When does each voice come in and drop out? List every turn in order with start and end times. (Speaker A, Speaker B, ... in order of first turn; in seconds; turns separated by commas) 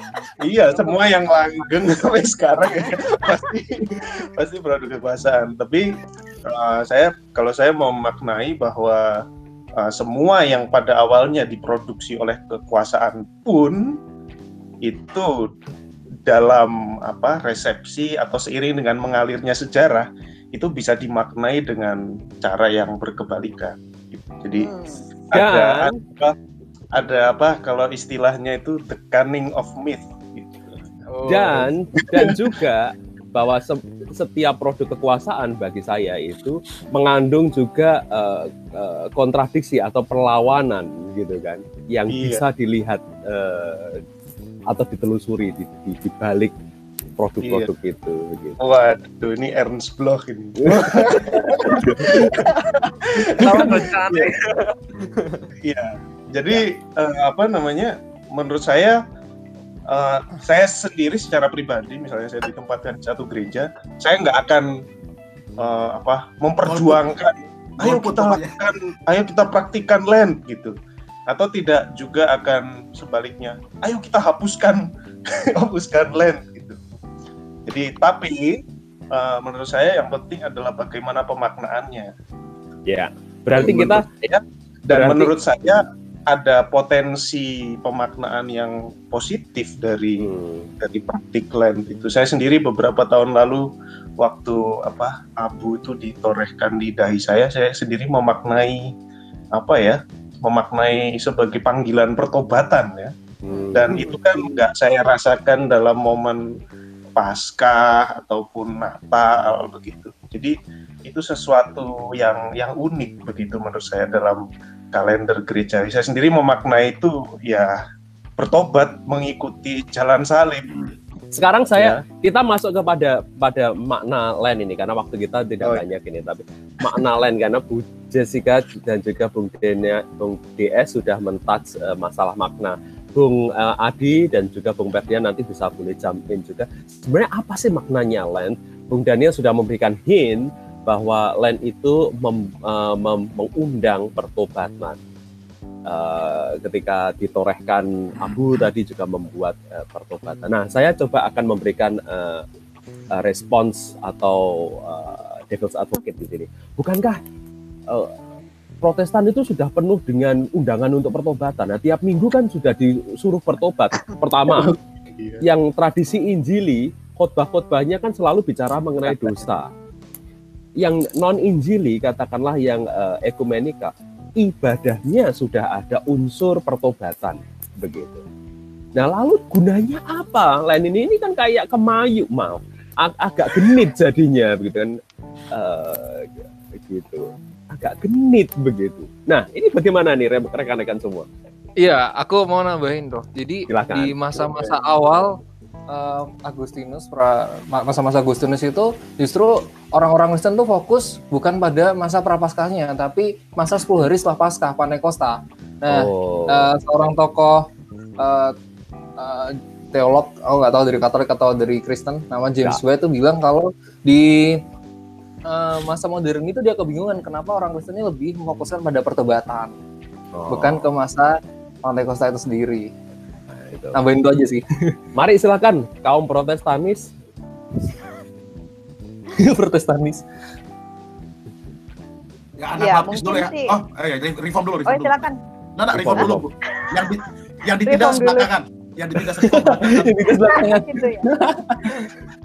Speaker A: 0.4-9.1, Speaker A: 9.8-14.0, Speaker A: 14.8-15.5, Speaker A: 16.2-24.7, Speaker B: 24.6-25.0, Speaker A: 25.3-26.3, Speaker C: 25.3-26.0, Speaker A: 26.9-30.7, Speaker D: 31.1-31.4, Speaker C: 31.2-44.0, Speaker A: 32.1-32.6, Speaker A: 42.1-42.4, Speaker C: 44.7-46.5, Speaker C: 47.2-48.6, Speaker A: 47.4-47.7, Speaker A: 48.6-54.3, Speaker C: 50.6-50.9, Speaker D: 53.3-54.4, Speaker A: 55.6-59.0, Speaker A: 59.9-64.7, Speaker A: 65.6-70.7, Speaker E: 66.6-67.2, Speaker E: 67.8-68.6, Speaker A: 71.3-76.8, Speaker A: 77.7-78.6, Speaker A: 79.1-82.1, Speaker C: 82.9-84.0, Speaker A: 83.5-93.7, Speaker C: 84.9-85.3, Speaker C: 90.2-90.7, Speaker A: 94.2-98.8, Speaker A: 99.5-103.1, Speaker C: 103.4-104.0, Speaker B: 103.5-104.2, Speaker A: 103.7-106.4, Speaker A: 107.2-117.8, Speaker A: 118.4-120.8, Speaker C: 121.3-145.0, Speaker A: 121.7-122.0, Speaker C: 145.9-152.4, Speaker C: 153.1-157.2, Speaker C: 157.9-158.1, Speaker C: 158.8-164.7, Speaker A: 164.5-165.4, Speaker C: 165.4-169.7, Speaker A: 169.1-169.3, Speaker C: 170.8-178.2, Speaker C: 178.9-184.9, Speaker C: 185.5-191.3, Speaker D: 191.8-195.4, Speaker C: 193.7-194.4, Speaker D: 195.9-207.7, Speaker C: 205.9-206.7, Speaker D: 208.2-208.5, Speaker D: 209.2-214.6, Speaker D: 215.5-219.7, Speaker C: 220.3-220.8, Speaker D: 220.5-222.9, Speaker C: 223.5-224.0, Speaker D: 223.9-224.6, Speaker C: 225.1-227.1, Speaker D: 229.5-230.2, Speaker E: 232.6-240.1, Speaker B: 232.8-233.7, Speaker B: 234.9-235.4, Speaker C: 235.9-236.4, Speaker B: 236.2-237.2, Speaker B: 237.8-238.5, Speaker C: 239.5-241.5, Speaker B: 240.4-241.3, Speaker D: 241.3-241.6